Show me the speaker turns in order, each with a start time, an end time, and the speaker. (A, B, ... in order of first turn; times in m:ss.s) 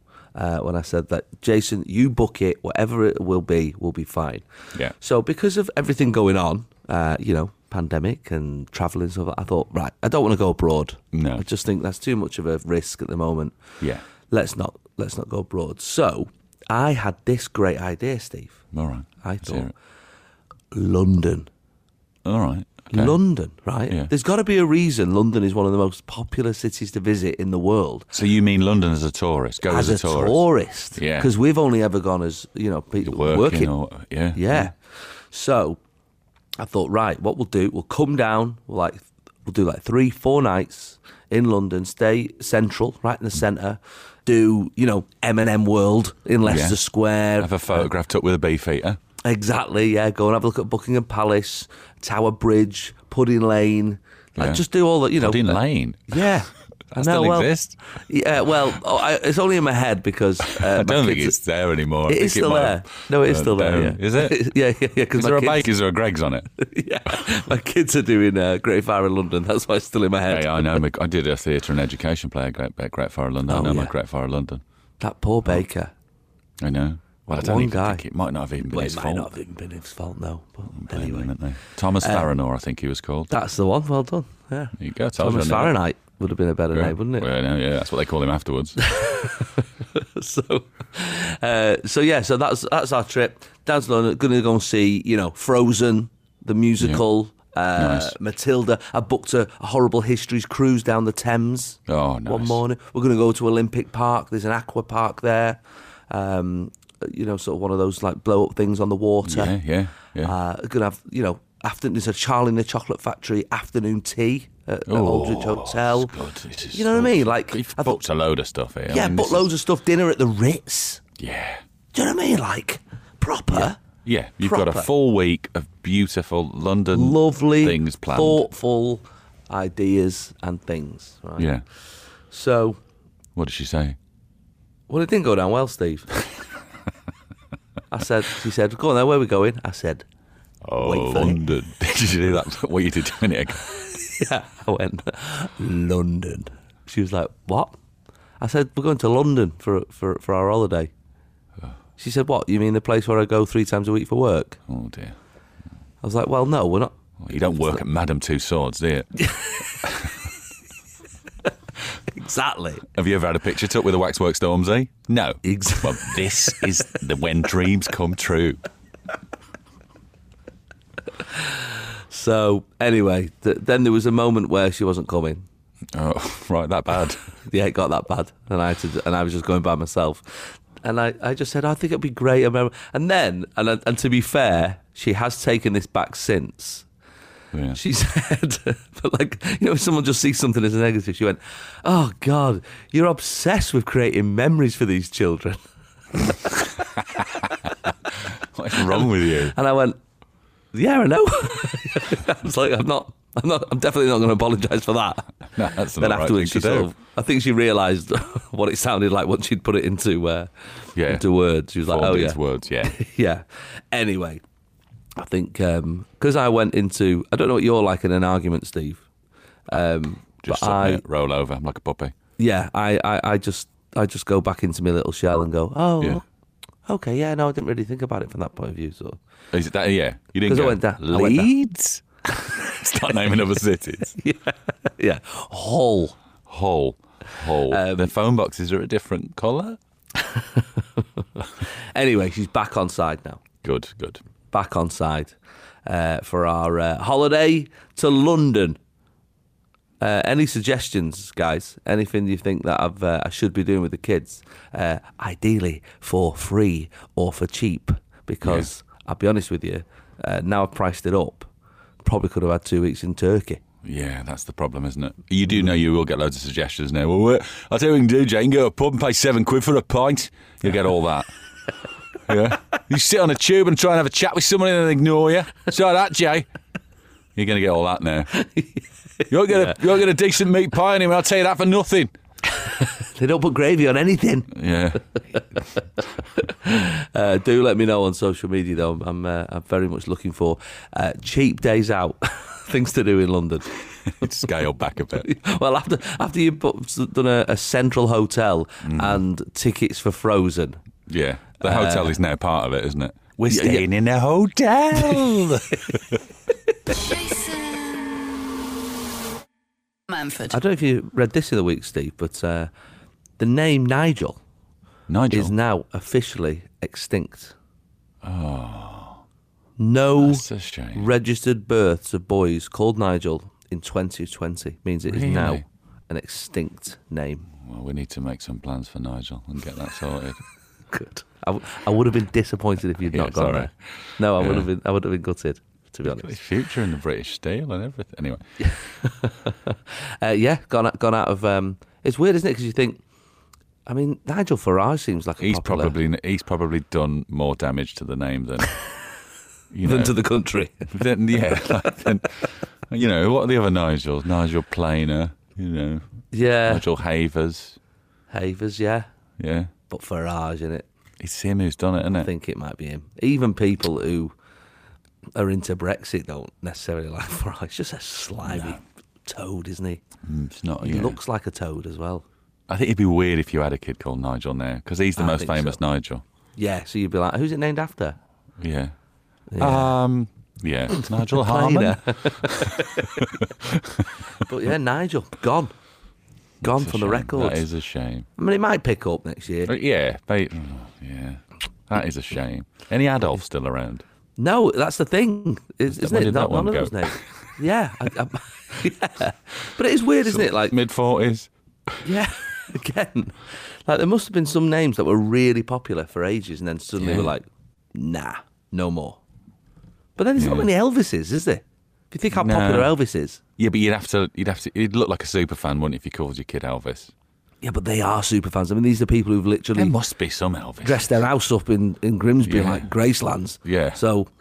0:00.4-0:13.6 A
0:11.1-0:11.5 B
0:14.3-0:18.6 A
0:18.7-0:19.7 B
0:19.2-0:19.7 A
0:20.7-0:21.5 A
0:22.2-0:23.2 B
0:22.9-0:28.1 A
0:28.1-0:31.3 B
0:29.6-0:33.7 A
0:33.0-0:34.7 B
0:34.4-0:35.8 A
0:36.6-0:47.9 A
0:46.4-0:46.8 B
0:47.4-0:49.0 B
0:49.2-1:01.4 A
0:54.4-0:54.6 B
0:55.2-0:56.2 B
0:57.0-0:57.8 B
1:00.5-1:04.4 B
1:02.1-1:05.7 A
1:05.1-1:06.5 B
1:06.6-1:10.8 A
1:10.3-1:14.6 B
1:13.5-1:13.9 A
1:15.0-1:15.9 A
1:16.6-1:19.3 B
1:17.3-1:18.0 A
1:18.7-1:21.3 A
1:20.8-1:23.3 B
1:22.0-1:22.3 A
1:23.3-1:27.3 A
1:24.8-1:25.8 B
1:26.7-1:28.8 B
1:28.8-1:49.6 A
1:37.8-1:38.2 B
1:41.9-1:42.6 B
1:49.2-1:50.4 B
1:50.2-1:56.1 A
1:54.9-1:59.5 B
1:56.7-1:58.0 A
1:58.9-2:01.0 A
2:01.2-2:01.6 B
2:01.9-2:03.8 A
2:03.5-2:08.4 B
2:04.4-2:04.9 A
2:06.9-2:11.5 A
2:11.4-2:11.6 B
2:12.3-2:12.8 A
2:13.4-2:14.0 B
2:14.9-2:16.1 A
2:17.9-2:20.1 A
2:20.6-2:23.6 B
2:20.8-2:21.4 A
2:23.7-2:27.7 A
2:28.4-2:30.9 A
2:32.0-2:34.6 A
2:34.7-2:35.2 B
2:36.0-2:37.8 A
2:37.2-2:39.2 B
2:39.2-2:39.6 A
2:39.8-2:40.1 B
2:42.1-2:42.9 A
2:42.9-2:48.6 B
2:45.4-2:46.7 A
2:51.2-2:55.4 A
2:55.9-2:57.3 B
2:57.5-3:06.9 A
3:07.5-3:07.8 B
3:07.7-3:15.6 A
3:18.3-3:19.6 B
3:18.8-3:20.0 A
3:20.7-3:30.5 A
3:25.6-3:26.9 B
3:31.0-3:31.2 B
3:31.0-3:34.4 A
3:31.8-3:32.9 B
3:35.2-3:39.0 A
3:39.7-3:41.0 A
3:40.4-3:42.1 B
3:42.4-3:46.2 A
3:46.9-3:49.2 A
3:49.5-3:54.2 B
3:50.5-3:51.5 A
3:54.1-3:56.2 A
3:56.5-3:59.8 B
3:57.7-3:58.1 A
4:00.2-4:03.4 A
4:03.6-4:04.2 B
4:04.5-4:08.8 A
4:10.0-4:21.5 A
4:18.4-4:18.7 B
4:22.0-4:23.6 A
4:23.8-4:31.3 B
4:32.2-4:36.5 B
4:37.4-4:38.3 B
4:38.3-4:39.8 A
4:39.3-4:42.1 B
4:42.6-4:44.5 A
4:44.5-4:45.0 B
4:46.4-4:53.7 A
4:54.1-4:55.3 B
4:55.2-5:00.8 A
4:58.8-4:59.2 B
5:01.1-5:06.2 B
5:01.6-5:02.2 A
5:03.5-5:03.9 A
5:04.9-5:06.0 A
5:06.9-5:08.2 C
5:10.1-5:10.6 C
5:10.5-5:12.7 A
5:13.4-5:14.4 A
5:15.1-5:15.5 B
5:15.3-5:17.6 A
5:18.2-5:19.2 B
5:19.8-5:27.5 A
5:20.2-5:21.1 B
5:25.1-5:25.6 B
5:27.6-5:30.4 B
5:30.9-5:36.4 A
5:33.0-5:34.7 B
5:36.1-5:38.4 B
5:38.6-5:43.0 A
5:43.9-5:46.0 A
5:45.4-5:48.8 B
5:49.7-5:50.2 B
5:49.8-5:50.9 A
5:50.9-5:56.0 B
5:56.3-5:56.9 A
5:56.7-5:57.8 B
5:58.3-5:59.1 A
5:59.4-5:59.7 B
5:59.9-6:00.9 A
6:01.2-6:02.3 B
6:02.2-6:04.3 A
6:05.4-6:10.0 A
6:08.4-6:08.8 B
6:10.2-6:11.2 B
6:10.8-6:12.2 A
6:12.7-6:16.2 B
6:15.2-6:15.8 A
6:16.6-6:18.2 A
6:18.6-6:18.9 B
6:19.5-6:20.0 A
6:19.6-6:24.2 B
6:20.9-6:23.3 A
6:24.4-6:25.7 A
6:26.6-6:28.3 B
6:26.6-6:27.6 A
6:28.4-6:29.7 A
6:29.7-6:34.0 B
6:34.4-6:40.8 A
6:35.9-6:37.3 B
6:40.2-6:42.1 B
6:42.0-6:49.2 A
6:47.0-6:47.3 B
6:50.2-6:53.4 A
6:50.4-6:50.7 B
6:52.3-6:52.9 B
6:53.6-6:57.1 B
6:57.6-6:59.9 A
6:59.8-7:01.2 B
7:00.8-7:04.3 A
7:02.5-7:02.9 B
7:03.6-7:04.0 B